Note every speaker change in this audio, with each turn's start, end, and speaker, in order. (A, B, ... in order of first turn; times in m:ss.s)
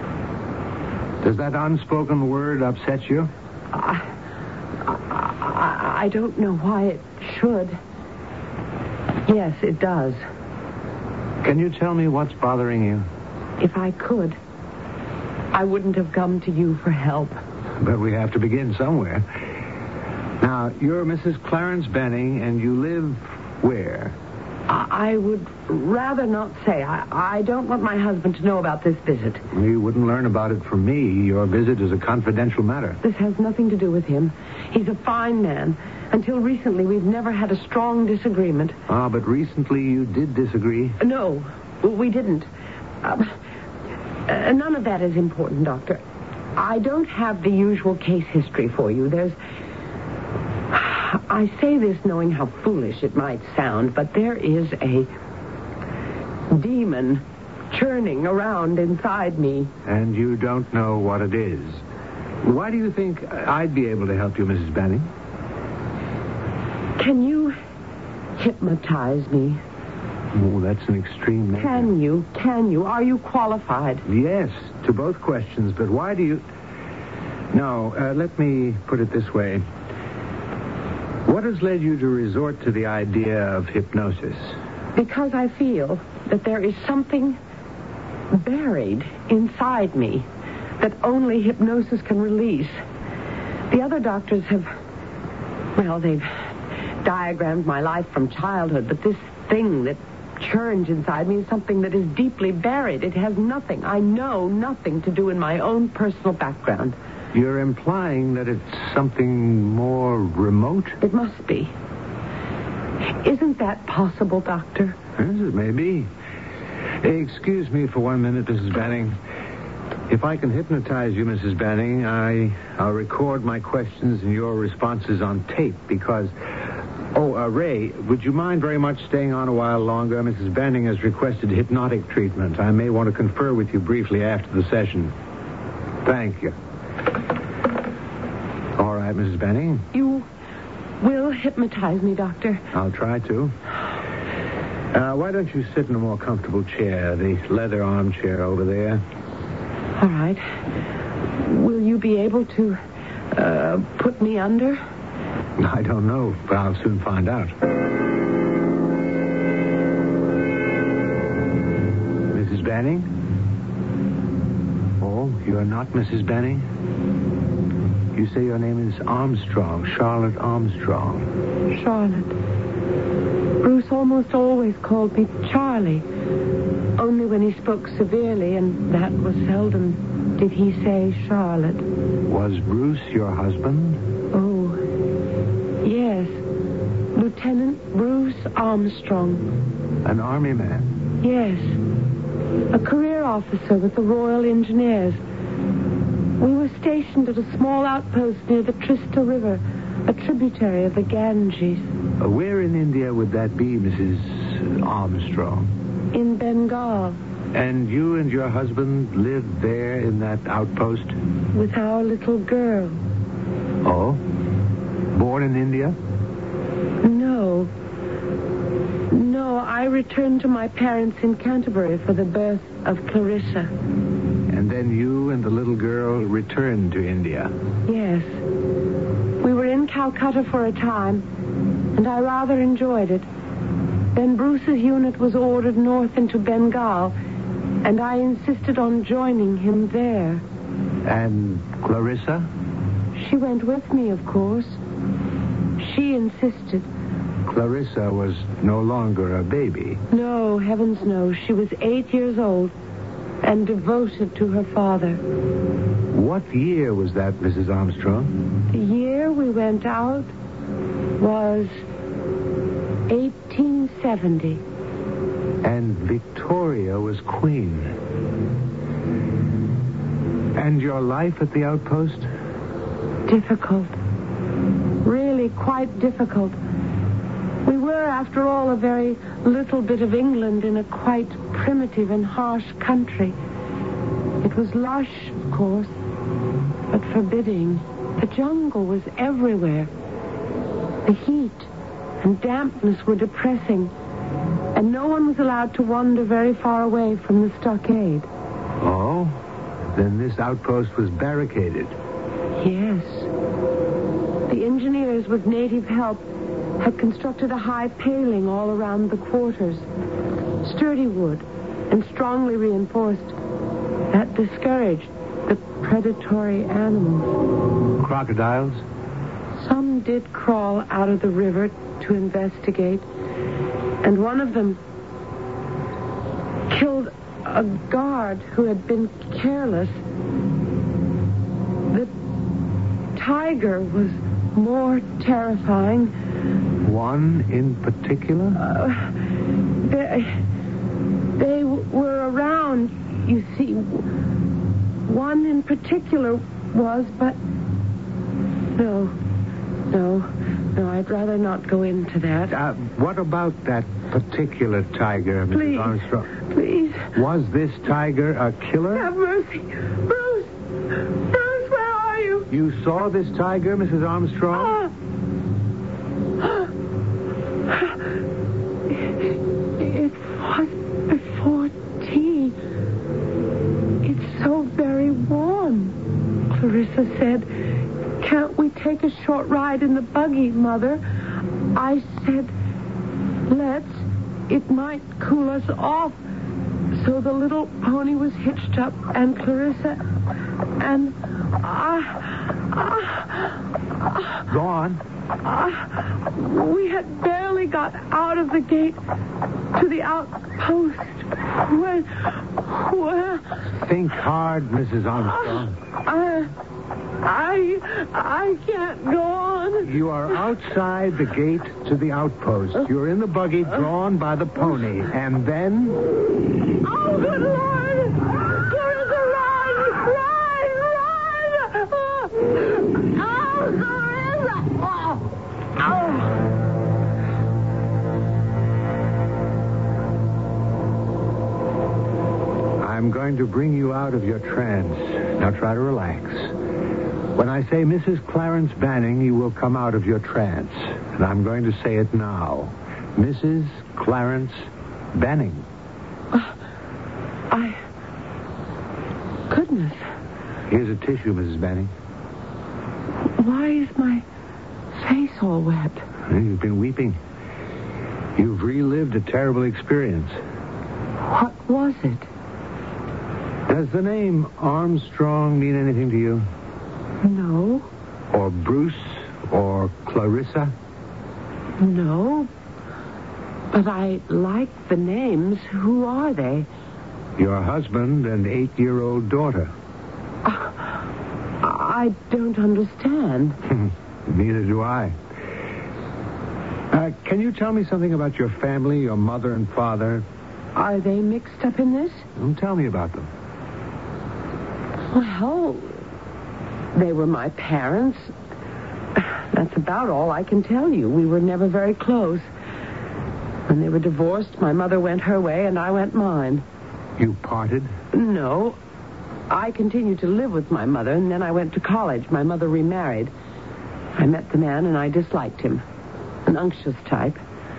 0:01.2-0:03.3 A
0:03.7-0:04.0 B
0:04.9-0:07.8 B
0:09.3-0:10.2 B
0:11.4-0:13.1 A
0:13.6-0:14.4 B
0:15.5-0:17.4 B
0:17.8-0:19.2 A
0:20.4-0:24.1 A
0:24.7-0:29.4 B
0:29.5-0:33.0 A
0:33.0-0:38.8 B
0:38.9-0:41.0 A
0:41.0-0:42.5 B
0:43.0-0:43.3 B
0:44.3-0:46.0 B
0:46.6-0:49.4 B
0:50.7-0:55.1 B
0:56.5-0:59.7 B
0:59.8-1:01.8 A
1:02.4-1:05.1 A
1:07.0-1:07.6 B
1:08.4-1:09.6 B
1:10.3-1:11.9 A
1:11.6-1:14.0 B
1:14.0-1:16.4 A
1:17.5-1:19.6 A
1:21.2-1:24.6 A
1:25.0-1:27.4 B
1:28.3-1:30.3 B
1:30.8-1:32.8 B
1:33.7-1:34.7 B
1:35.8-1:36.3 B
1:37.0-1:47.0 B
1:47.3-1:51.0 A
1:51.0-1:51.7 B
1:53.2-1:55.0 B
1:55.2-1:56.1 A
1:57.0-1:59.2 A
2:00.1-2:06.3 A
2:07.1-2:15.1 A
2:16.0-2:16.5 A
2:18.8-2:19.8 A
2:19.9-2:20.3 B
2:21.0-2:22.6 B
2:22.7-2:23.5 A
2:24.9-2:29.0 A
2:30.0-2:30.4 B
2:31.4-2:32.8 B
2:33.3-2:34.8 B
2:35.6-2:37.5 A
2:42.3-2:43.1 A
2:45.0-2:46.6 A
2:48.1-2:51.3 A
2:51.7-2:52.4 B
2:53.6-2:56.0 B
2:57.0-3:01.8 B
3:02.3-3:04.0 A
3:04.3-3:04.8 B
3:05.8-3:06.4 B
3:07.1-3:09.5 B
3:10.0-3:10.9 A
3:11.2-3:11.8 B
3:12.7-3:15.2 B
3:16.4-3:21.9 B
3:22.2-3:25.7 A
3:26.1-3:27.2 B
3:27.5-3:31.2 A
3:31.5-3:33.0 B
3:33.8-3:34.2 A
3:35.1-3:36.0 A
3:37.0-3:37.7 B
3:39.1-3:43.7 B
3:44.5-3:47.5 A
3:47.9-3:48.4 B
3:49.4-3:51.2 B
3:51.9-3:53.3 B
3:54.1-3:57.2 B
3:57.8-4:00.4 B
4:01.0-4:02.5 A
4:03.1-4:04.8 B
4:05.8-4:06.9 B
4:07.4-4:10.0 A
4:10.1-4:12.7 B
4:13.4-4:15.2 B
4:16.1-4:18.3 A
4:18.7-4:20.3 B
4:21.2-4:21.7 B
4:23.1-4:24.6 B
4:25.6-4:27.9 A
4:30.6-4:32.3 A
4:33.3-4:34.0 B
4:35.0-4:36.6 B
4:37.6-4:43.4 B
4:44.4-4:45.9 B
4:46.9-4:49.9 B
4:51.0-4:51.7 B
4:52.2-4:53.9 B
4:54.7-4:58.3 B
4:58.8-5:01.9 A
5:02.6-5:03.3 B
5:04.5-5:09.8 B
5:10.6-5:13.4 B
5:14.1-5:17.3 B
5:18.0-5:18.8 A
5:19.6-5:23.0 B
5:24.0-5:24.8 B
5:26.7-5:30.0 B
5:33.1-5:36.1 B
5:36.8-5:38.6 A
5:38.6-5:39.1 B
5:39.8-5:40.4 B
5:41.4-5:44.0 B
5:45.1-5:47.4 B
5:48.8-5:49.1 B
5:49.9-5:52.5 B
5:52.5-5:56.3 A
5:55.5-5:57.1 B
5:57.1-5:59.0 A
5:58.9-6:00.5 B
6:01.3-6:02.5 B
6:02.5-6:04.8 A
6:09.8-6:12.5 B
6:14.0-6:17.5 B
6:18.2-6:21.0 B
6:21.7-6:22.5 B
6:23.5-6:26.2 B
6:26.9-6:30.0 B
6:30.8-6:33.5 B
6:34.5-6:35.0 A
6:35.4-6:39.0 B
6:39.7-6:43.5 B
6:43.8-6:45.7 A
6:46.0-6:46.5 B
6:47.2-6:49.9 B
6:49.8-6:56.0 A
6:56.8-7:05.0 B
7:12.8-7:16.5 A
7:17.3-7:25.6 A
7:27.5-7:27.8 B
7:29.5-7:30.0 B
7:30.7-7:31.9 A
7:33.4-7:34.2 B
7:34.9-7:36.0 B
7:36.3-7:37.2 A
7:38.4-7:40.4 A
7:41.3-7:42.3 B
7:43.7-7:46.4 A
7:47.2-7:47.9 B
7:48.3-7:50.7 A
7:51.8-7:52.5 B
7:53.7-7:56.7 B
7:57.4-7:59.7 A
8:00.4-8:00.7 B
8:01.6-8:03.6 B
8:03.7-8:05.2 A
8:06.9-8:10.2 A
8:10.7-8:12.2 B
8:12.4-8:13.3 A
8:15.1-8:16.0 B
8:16.9-8:18.3 B
8:19.2-8:22.5 B
8:23.7-8:26.6 B
8:27.2-8:27.9 A
8:28.1-8:28.8 B
8:29.5-8:33.3 B
8:34.2-8:35.8 B
8:36.5-8:37.4 B